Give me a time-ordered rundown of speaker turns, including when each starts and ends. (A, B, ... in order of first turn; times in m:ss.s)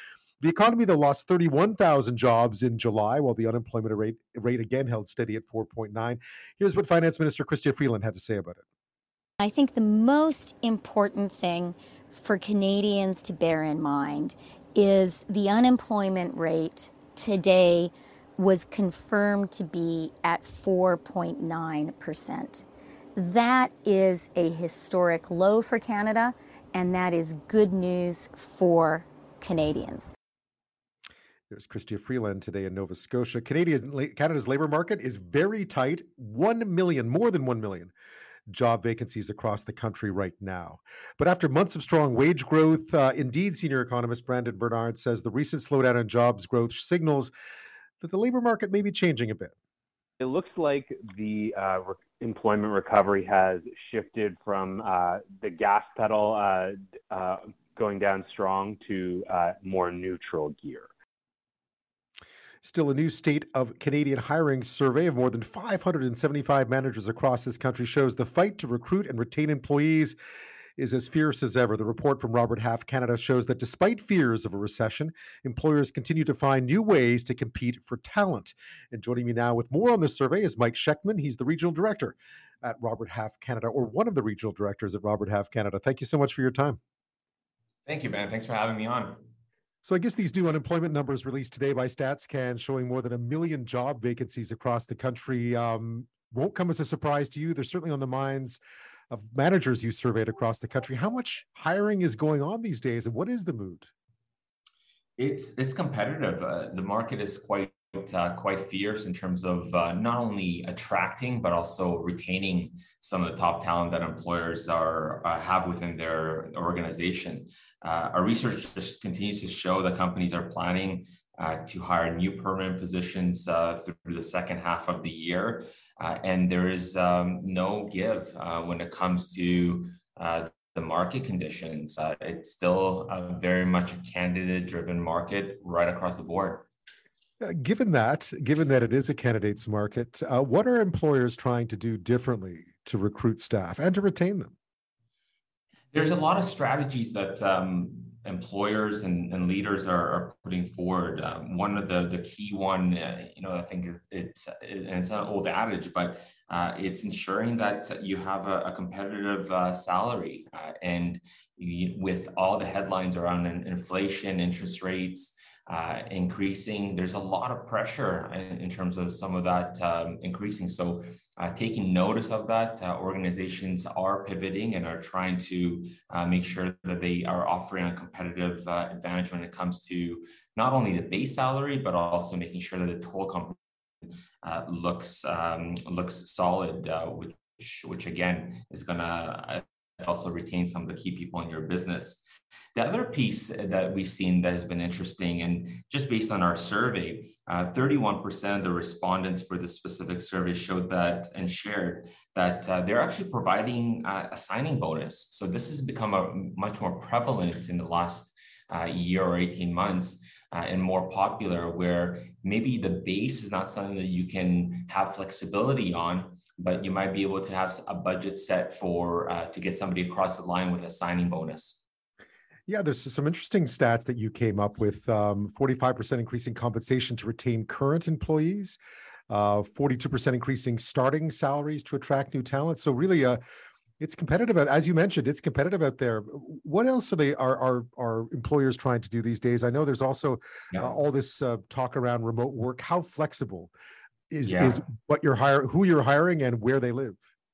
0:00.4-0:08.6 A
0:09.4-0:22.6 B
0:23.2-0:30.1 B
0:31.5-0:37.9 A
0:38.5-0:47.3 A
0:48.0-0:49.5 A
0:50.2-1:00.9 C
1:02.6-1:10.2 A
1:10.8-1:26.8 A
1:27.8-1:29.2 D
1:29.8-1:38.6 A
1:39.1-1:43.9 A
1:45.2-2:16.7 D
2:17.4-2:24.5 A
2:25.9-3:03.6 D
3:04.4-3:12.2 D
3:12.7-3:41.8 D
3:42.7-3:48.8 A
3:49.3-3:53.4 A
3:54.0-4:03.7 A
4:04.3-4:07.2 A
4:04.5-4:04.8 D